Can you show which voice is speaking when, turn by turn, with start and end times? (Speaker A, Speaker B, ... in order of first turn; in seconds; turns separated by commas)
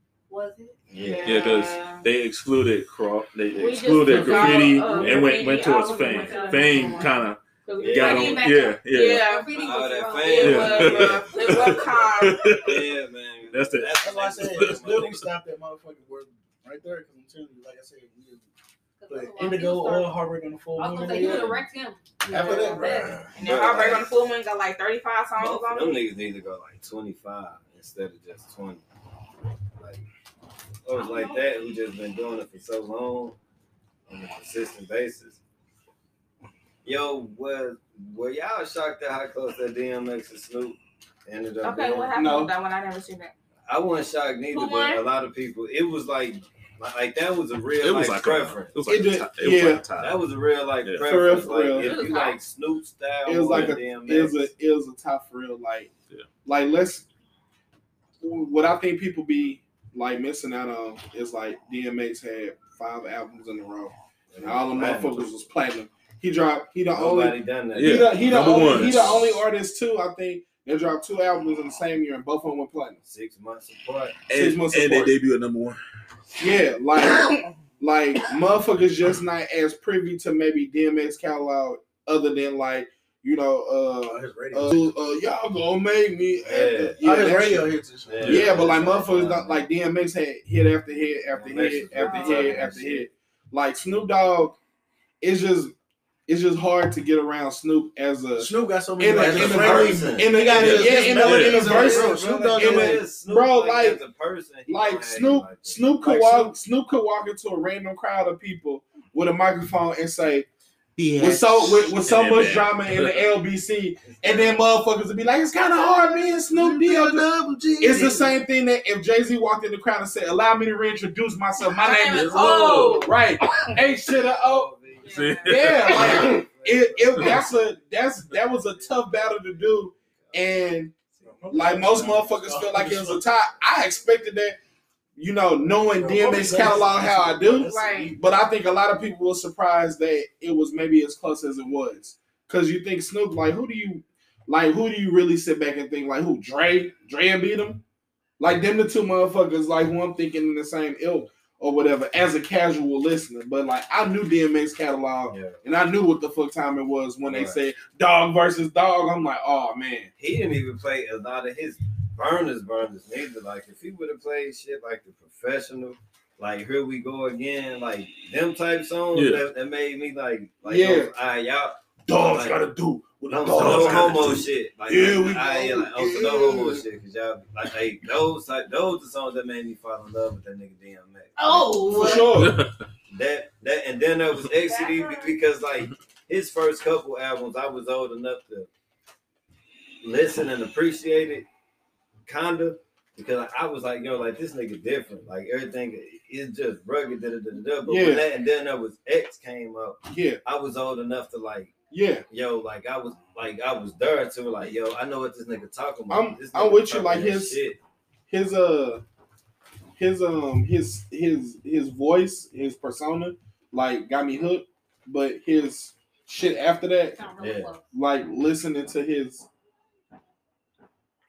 Speaker A: 0.3-0.8, Speaker B: 0.9-1.6, Speaker C: 0.9-2.1, Speaker D: 1.2-9.3, Speaker C: 3.6-9.5, Speaker A: 4.1-7.2, Speaker B: 7.8-8.5, Speaker A: 7.9-11.2, Speaker B: 9.5-11.9, Speaker C: 10.1-12.6, Speaker D: 10.4-13.0, Speaker B: 12.6-15.2, Speaker D: 13.5-15.2, Speaker E: 14.0-18.5, Speaker A: 19.0-20.2, Speaker E: 19.1-21.6, Speaker A: 20.8-23.2, Speaker C: 21.0-21.6, Speaker E: 22.2-23.4, Speaker C: 22.3-26.0, Speaker B: 23.4-24.2, Speaker B: 25.4-28.8, Speaker B: 29.8-30.0, Speaker B: 30.9-33.4, Speaker A: 31.0-31.4, Speaker B: 34.1-35.4, Speaker B: 36.8-42.1, Speaker C: 41.6-43.3, Speaker F: 42.1-42.5, Speaker B: 43.7-48.8, Speaker C: 44.5-45.0, Speaker D: 47.8-50.2, Speaker F: 48.9-49.8, Speaker B: 50.0-54.4, Speaker D: 50.8-51.3, Speaker F: 51.0-52.0, Speaker C: 51.7-52.4, Speaker F: 53.3-55.9, Speaker D: 53.5-53.8, Speaker F: 56.5-57.1, Speaker F: 58.2-73.0, Speaker B: 64.3-65.3, Speaker B: 66.9-69.4, Speaker D: 67.8-69.3, Speaker B: 73.0-74.2, Speaker D: 74.3-75.8, Speaker F: 74.3-75.1, Speaker F: 76.4-94.6, Speaker E: 84.1-84.9, Speaker B: 86.4-87.5, Speaker E: 87.0-89.0, Speaker B: 88.0-89.7, Speaker D: 88.2-88.5, Speaker B: 91.3-93.1, Speaker C: 92.0-92.5, Speaker E: 92.1-92.8, Speaker F: 95.2-95.7, Speaker F: 96.3-104.0, Speaker E: 98.4-103.0, Speaker B: 99.1-106.2, Speaker D: 100.5-101.8, Speaker F: 104.7-110.5, Speaker E: 106.0-106.5, Speaker D: 111.0-113.2, Speaker F: 111.2-124.7, Speaker B: 114.0-114.7, Speaker E: 115.9-118.3, Speaker E: 121.6-122.6, Speaker C: 121.8-123.1, Speaker D: 122.1-123.1, Speaker B: 123.8-127.7, Speaker C: 125.0-126.3, Speaker D: 125.1-126.3, Speaker F: 125.4-130.9, Speaker B: 128.4-129.7, Speaker B: 130.2-130.6, Speaker B: 131.1-131.6, Speaker E: 131.2-133.2, Speaker F: 131.5-134.6, Speaker F: 135.2-147.8, Speaker E: 135.9-138.2, Speaker C: 137.7-138.2, Speaker F: 148.4-160.1, Speaker B: 155.3-155.6, Speaker B: 157.2-157.6, Speaker B: 160.2-172.6, Speaker D: 169.1-169.4, Speaker F: 170.7-171.1, Speaker F: 172.1-176.6, Speaker B: 173.3-181.9, Speaker D: 173.5-174.4, Speaker E: 175.4-176.8, Speaker C: 181.4-182.3, Speaker F: 181.9-182.6, Speaker D: 182.1-182.7, Speaker B: 183.1-188.7, Speaker C: 184.7-185.3, Speaker B: 190.0-191.5, Speaker B: 192.3-201.8, Speaker F: 197.8-198.3, Speaker F: 200.1-200.4, Speaker F: 201.9-202.2, Speaker B: 202.3-207.8, Speaker F: 206.1-207.6, Speaker F: 208.3-209.0, Speaker F: 210.0-217.2, Speaker A: 217.1-217.8, Speaker B: 217.4-217.7, Speaker F: 217.9-219.5